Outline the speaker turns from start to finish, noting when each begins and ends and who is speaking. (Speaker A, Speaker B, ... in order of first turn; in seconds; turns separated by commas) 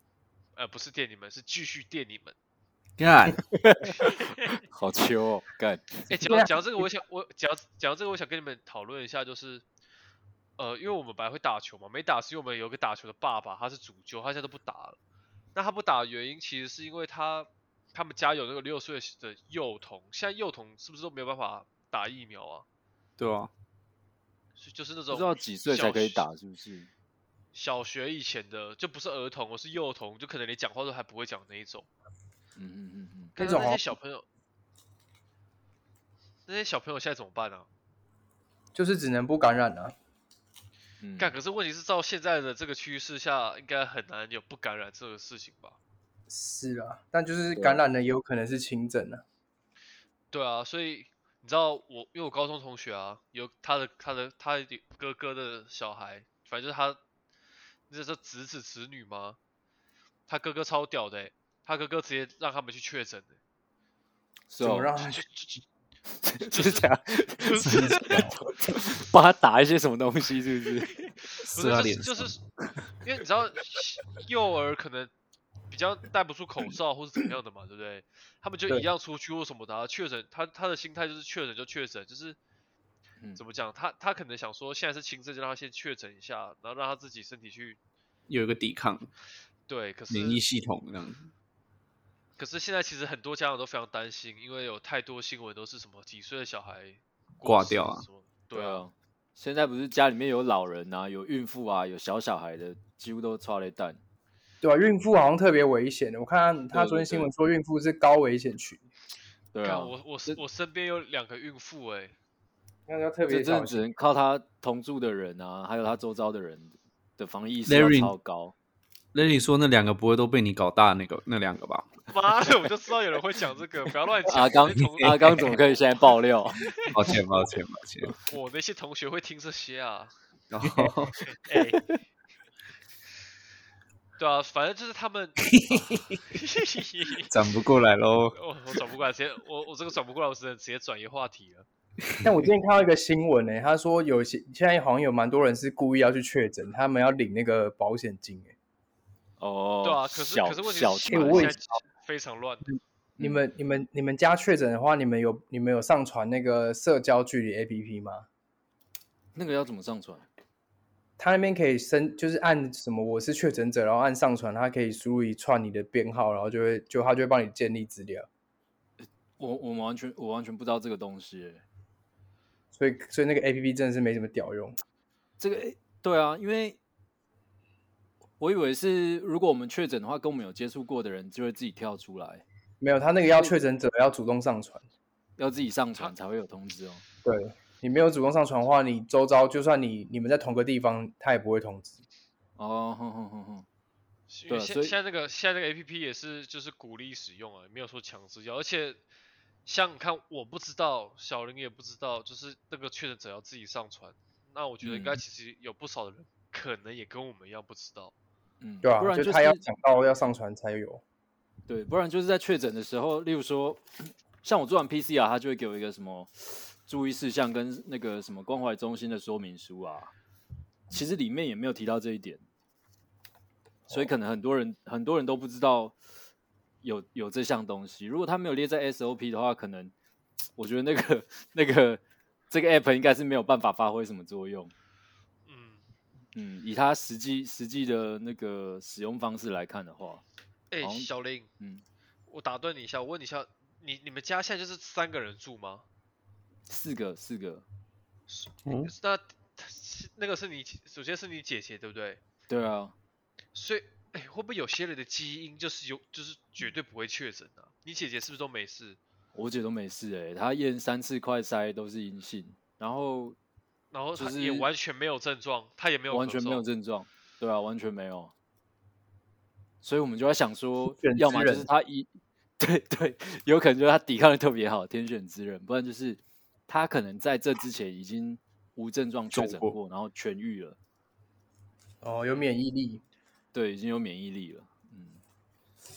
Speaker A: 0.6-2.3, Speaker B: 3.0-3.4, Speaker C: 3.5-4.1, Speaker A: 4.0-4.5, Speaker C: 4.7-6.0, Speaker A: 6.1-9.6, Speaker D: 6.2-6.5, Speaker A: 10.6-15.0, Speaker A: 15.5-22.6, Speaker B: 23.2-23.5, Speaker A: 24.6-26.2, Speaker C: 25.1-26.9, Speaker A: 27.5-31.9, Speaker C: 32.5-33.3, Speaker A: 33.4-34.2, Speaker D: 33.4-33.9, Speaker A: 36.5-37.7, Speaker D: 38.7-39.9, Speaker C: 41.0-41.4, Speaker A: 41.2-45.8, Speaker D: 46.3-49.2, Speaker C: 47.5-47.8, Speaker A: 50.3-57.0, Speaker A: 57.9-59.4, Speaker A: 60.3-63.4, Speaker C: 64.5-65.0, Speaker D: 64.6-65.2, Speaker A: 65.0-65.6, Speaker C: 66.1-70.9, Speaker A: 66.4-68.3, Speaker A: 71.2-72.4, Speaker B: 71.4-72.3, Speaker A: 73.0-75.1, Speaker A: 75.7-82.4, Speaker A: 83.3-87.8, Speaker B: 88.3-89.1, Speaker A: 89.7-90.4, Speaker B: 90.1-91.3, Speaker A: 92.4-98.8, Speaker B: 97.4-98.0, Speaker C: 98.5-104.0, Speaker D: 104.6-108.8, Speaker C: 106.7-107.3, Speaker C: 109.5-110.4, Speaker A: 109.6-112.1, Speaker D: 112.9-113.8, Speaker C: 113.3-118.5, Speaker B: 117.7-118.1, Speaker B: 119.1-121.9, Speaker A: 122.1-125.6, Speaker C: 124.3-126.6, Speaker B: 125.0-125.5, Speaker A: 126.6-126.9, Speaker B: 126.9-128.2, Speaker A: 128.2-130.1, Speaker B: 130.5-131.3, Speaker A: 131.3-131.8, Speaker A: 134.2-135.4, Speaker B: 135.4-136.2, Speaker A: 136.3-137.3, Speaker B: 137.3-138.4, Speaker A: 138.3-141.7, Speaker B: 142.1-142.4, Speaker D: 142.2-148.5, Speaker C: 149.4-151.6, Speaker A: 149.8-152.7, Speaker D: 151.1-151.8, Speaker C: 153.2-153.4, Speaker D: 153.2-158.3, Speaker C: 159.3-160.2, Speaker D: 161.2-168.3, Speaker C: 169.0-171.6, Speaker D: 172.7-174.8, Speaker C: 175.4-176.8, Speaker C: 178.4-182.4, Speaker D: 182.8-184.8, Speaker C: 185.4-187.0, Speaker D: 187.2-192.0, Speaker C: 192.6-193.7, Speaker A: 194.3-199.0, Speaker C: 194.5-194.9, Speaker A: 199.6-208.1, Speaker C: 204.8-205.2, Speaker C: 208.6-209.6, Speaker D: 208.8-211.0, Speaker C: 211.7-220.1, Speaker C: 220.9-222.4, Speaker C: 223.9-225.9, Speaker C: 226.8-229.9, Speaker C: 230.6-234.7, Speaker A: 235.5-235.8, Speaker C: 236.3-240.2, Speaker A: 240.7-241.5, Speaker C: 240.8-241.1, Speaker A: 242.3-245.8, Speaker C: 246.7-247.6, Speaker A: 248.3-252.2, Speaker B: 248.7-248.9, Speaker C: 252.5-252.9, Speaker A: 253.5-259.0, Speaker C: 259.3-263.4, Speaker A: 263.9-266.6, Speaker C: 264.1-264.6, Speaker C: 266.1-268.3, Speaker C: 269.8-280.8, Speaker D: 271.0-271.7, Speaker B: 279.3-279.7, Speaker D: 282.0-283.0, Speaker C: 283.5-285.2